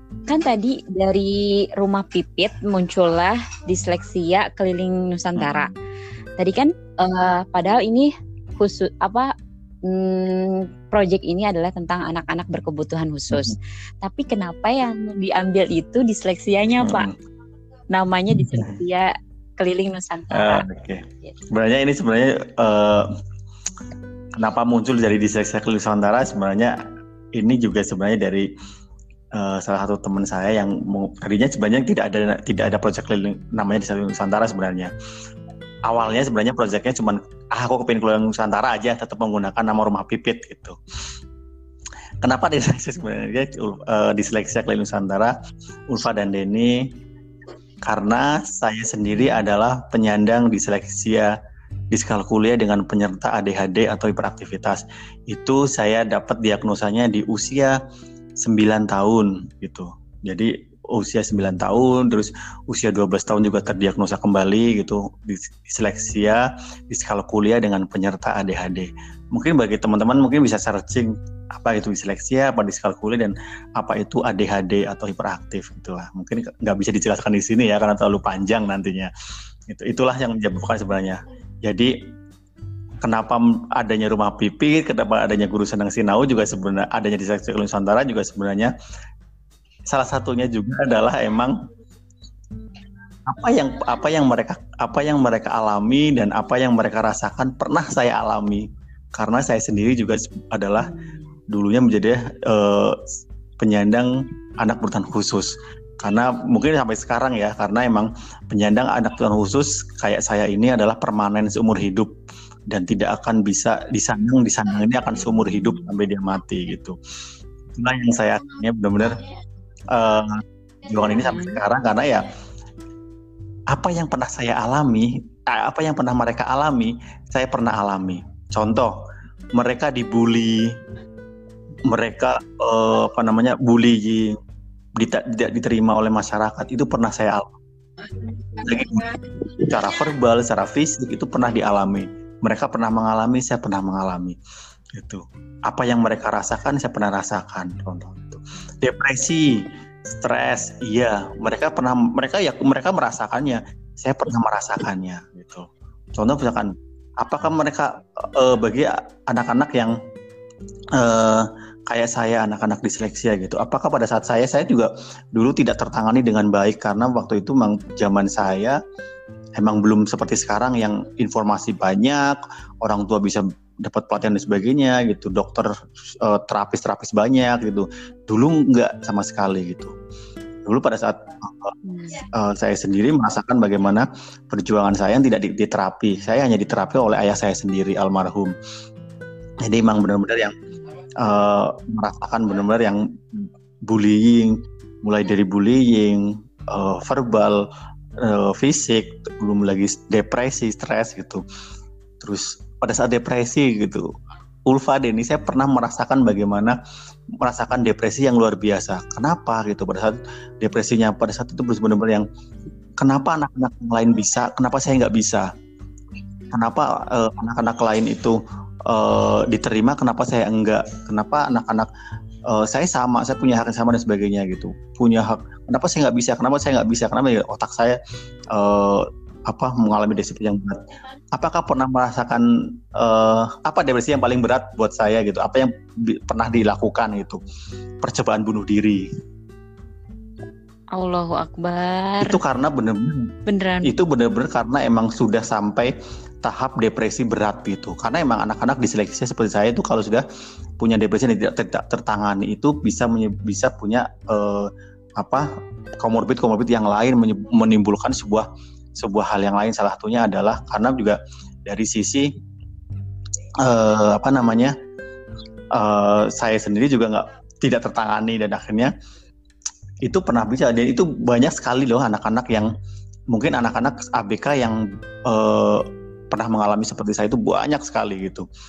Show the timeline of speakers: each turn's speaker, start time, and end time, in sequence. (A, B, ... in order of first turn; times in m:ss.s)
0:00.3-0:05.7 A
0:05.4-0:05.7 B
0:06.4-0:09.3 A
0:09.8-0:17.1 A
0:16.8-0:17.2 B
0:17.9-0:20.7 A
0:20.3-0:23.1 B
0:24.4-0:26.8 B
0:27.4-0:28.5 B
0:29.4-0:34.9 B
0:35.9-0:40.8 B
0:42.2-0:45.3 B
0:45.9-0:46.9 B
0:47.8-0:51.3 B
0:51.9-0:57.8 B
0:58.4-1:19.1 B
1:19.7-1:22.0 B
1:23.0-1:28.7 B
1:29.9-1:31.6 B
1:33.3-1:41.0 B
1:41.5-1:43.0 B
1:43.6-1:52.1 B
1:52.7-1:57.0 B
1:57.8-1:59.2 B
1:59.9-2:02.3 B
2:01.3-2:01.6 A
2:03.7-2:09.0 B
2:09.6-2:10.8 B
2:11.9-2:14.4 B
2:15.0-2:17.5 B
2:18.6-2:24.4 B
2:25.0-2:40.0 B
2:41.0-2:48.8 B
2:49.6-2:59.9 B
3:00.6-3:08.6 B
3:01.9-3:02.2 A
3:09.6-3:10.5 B
3:11.2-3:17.6 B
3:18.2-3:21.4 B
3:22.2-3:24.1 B
3:24.7-3:26.8 B
3:27.4-3:32.3 B
3:33.0-3:35.5 B
3:36.5-3:41.9 B
3:42.5-3:48.0 B
3:48.5-3:50.8 B
3:51.4-3:57.4 B
3:58.0-3:59.0 B
4:01.0-4:02.4 A
4:02.2-4:03.3 B
4:03.5-4:03.9 A
4:03.8-4:10.2 B
4:10.8-4:15.5 B
4:16.0-4:18.5 B
4:19.0-4:22.3 B
4:23.6-4:24.7 B
4:25.8-4:28.9 B
4:30.1-4:32.7 B
4:33.3-4:38.5 B